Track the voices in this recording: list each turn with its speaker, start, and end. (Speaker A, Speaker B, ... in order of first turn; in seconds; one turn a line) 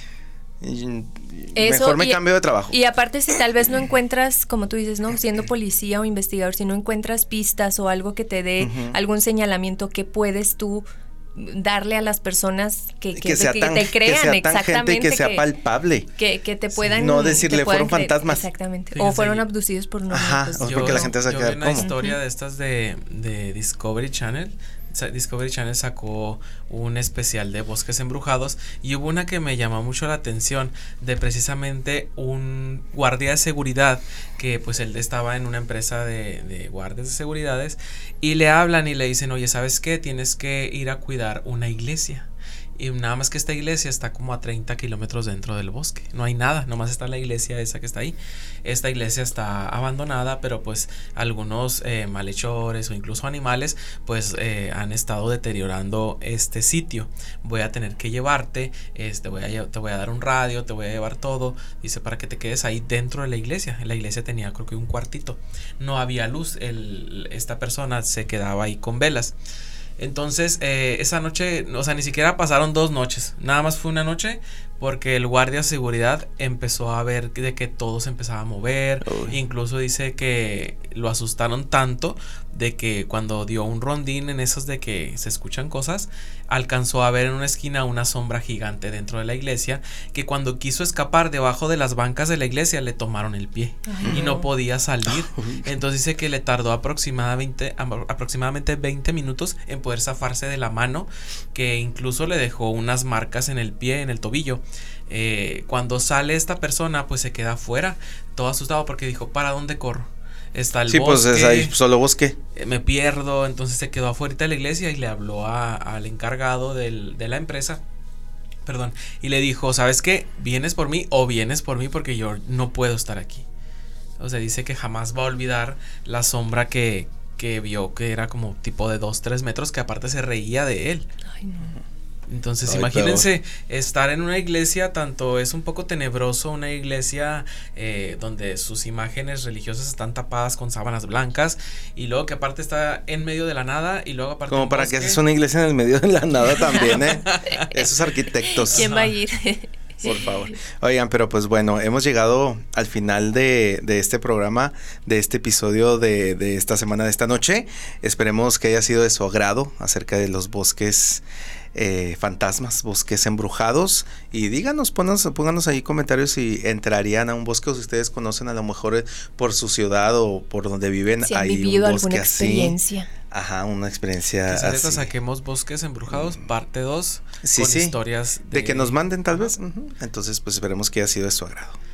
Speaker A: 0.6-2.8
Speaker B: 1.6-15.5
Speaker A: 8.6-9.0
Speaker A: 13.2-16.1
Speaker B: 16.2-21.2
Speaker A: 16.8-18.4
Speaker C: 18.9-19.4
Speaker A: 20.1-21.9
Speaker C: 20.6-69.3
Speaker B: 21.8-22.2
Speaker C: 70.0-111.7
Speaker A: 79.0-79.4
Speaker B: 93.9-94.5
Speaker A: 95.1-95.7
Speaker A: 110.9-112.4
Speaker C: 112.5-117.8
Speaker C: 118.7-123.5
Speaker C: 124.2-131.1
Speaker B: 131.3-131.7
Speaker C: 132.3-145.2
Speaker A: 132.7-133.3
Speaker A: 144.5-148.9
Speaker B: 146.5-146.9
Speaker C: 146.8-147.7
Speaker B: 148.5-150.5
Speaker C: 148.7-149.1
Speaker A: 150.0-172.8
Speaker B: 171.2-173.1
Speaker A: 173.3-175.1
Speaker C: 174.5-179.5
Speaker A: 176.1-176.4
Speaker A: 177.4-177.9
Speaker A: 178.5-181.8